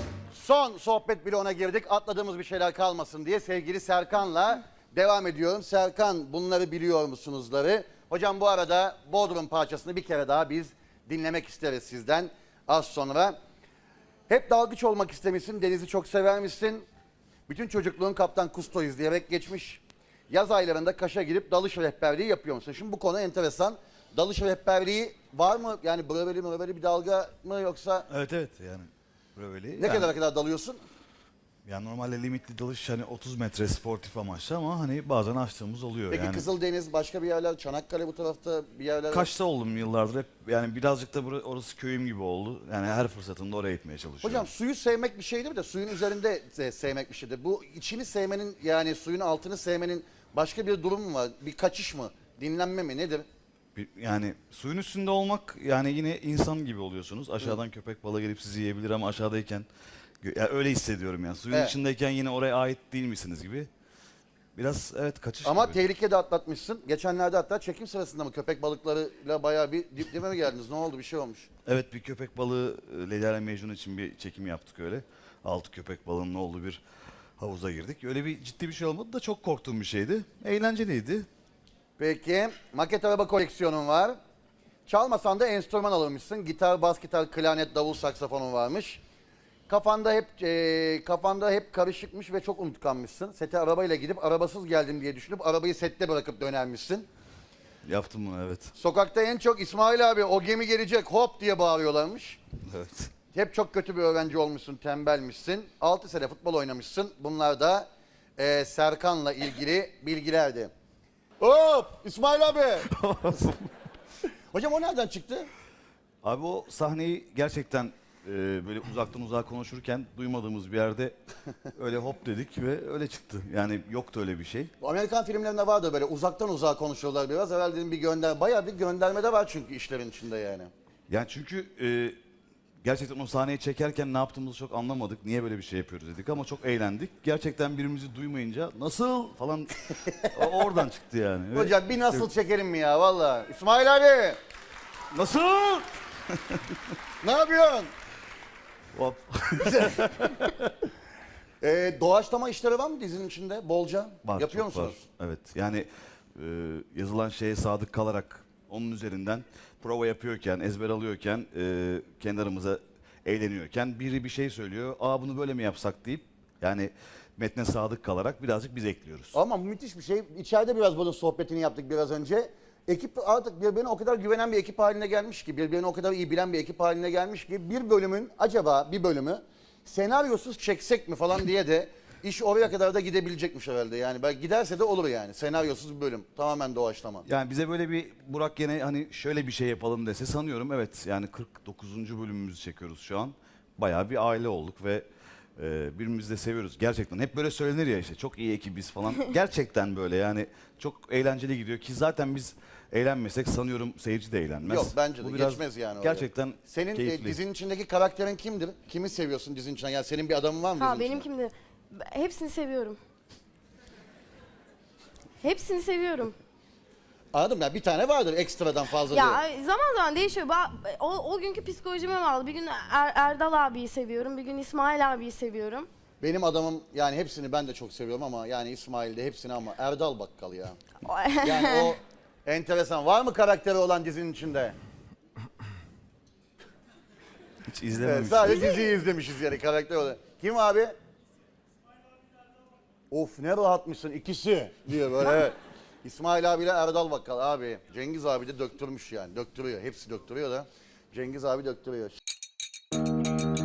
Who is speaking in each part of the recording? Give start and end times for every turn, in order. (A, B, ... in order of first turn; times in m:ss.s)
0:00.3-0:13.4 A
0:14.3-0:16.9 A
0:17.5-0:28.1 A
0:28.1-0:30.1 B
0:29.8-0:30.8 A
0:31.7-0:36.4 B
0:36.1-0:39.3 A
0:39.1-0:44.5 B
0:44.2-0:53.3 A
0:53.8-0:59.7 B
1:00.2-1:03.7 B
1:04.6-1:05.8 B
1:05.4-1:11.5 A
1:11.7-1:16.8 B
1:17.4-1:21.3 B
1:22.0-1:24.2 A
1:24.9-1:29.0 A
1:29.7-1:37.1 A
1:37.8-1:38.7 B
1:38.8-1:42.4 A
1:42.7-1:43.1 B
1:43.3-1:50.7 A
1:51.4-1:52.9 A
1:52.9-1:53.7 B
1:54.5-1:55.5 A
1:56.2-2:01.2 B
2:01.7-2:04.7 B
2:04.8-2:10.7 A
2:11.1-2:12.2 B
2:12.8-2:22.3 B
2:20.1-2:20.4 A
2:21.5-2:24.4 A
2:25.1-2:26.8 B
2:27.2-2:27.9 A
2:29.0-2:30.5 B
2:31.6-2:35.0 A
2:34.2-2:49.4 B
2:49.3-3:07.2 A
3:07.3-3:15.0 B
3:15.6-3:27.4 B
3:24.6-3:31.3 A
3:30.8-3:33.0 C
3:35.4-3:36.4 C
3:37.3-3:39.4 A
3:39.1-3:45.9 C
3:46.2-3:50.8 A
3:51.0-3:51.9 C
3:51.4-3:54.8 A
3:57.7-3:58.6 B
3:58.0-4:01.0 A
4:03.1-4:12.2 A